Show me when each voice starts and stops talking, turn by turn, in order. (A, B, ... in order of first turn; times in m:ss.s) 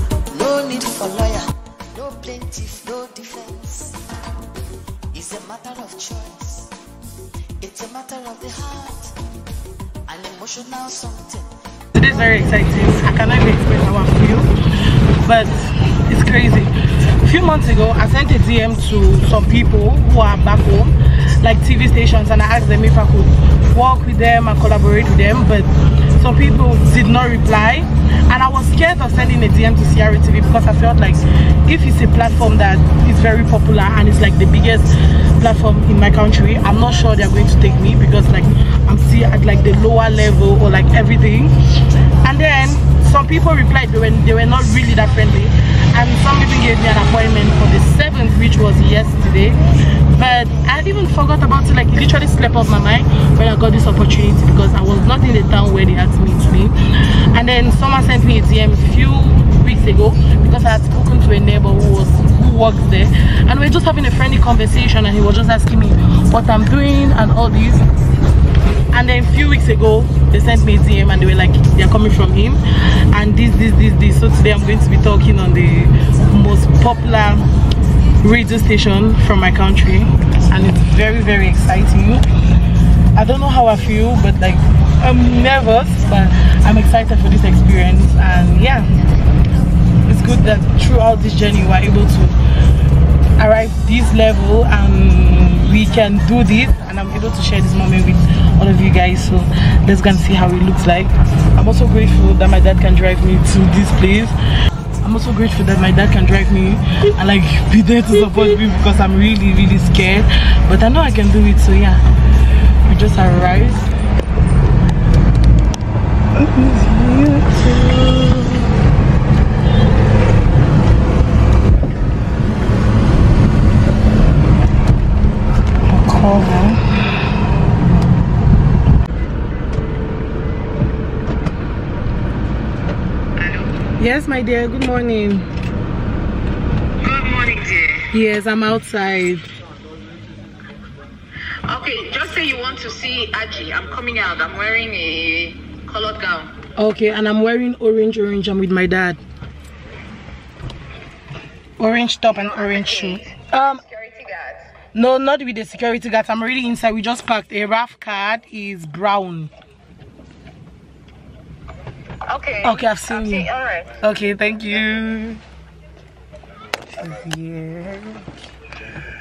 0:00.3-0:04.0 A
0:05.1-0:06.7 A
0:07.6-0:09.2 A
0:10.1-0:11.5 A
0:11.9-1:07.8 B
1:08.9-1:17.5 B
1:18.2-1:22.6 B
1:23.1-1:29.0 B
1:30.0-1:32.4 B
1:33.4-1:44.4 B
1:45.0-1:53.9 B
1:56.3-1:58.8 B
2:05.8-2:07.0 B
2:13.4-2:13.8 C
2:14.0-2:15.5 B
2:17.0-2:18.1 C
2:18.1-2:19.5 B
2:21.6-2:26.6 C
2:26.8-2:29.2 B
2:31.8-2:33.8 B
2:32.3-2:33.3 C
2:33.8-2:34.7 C
2:34.9-2:39.5 B
2:42.3-2:44.0 C
2:42.6-2:45.4 B
2:46.9-2:48.3 B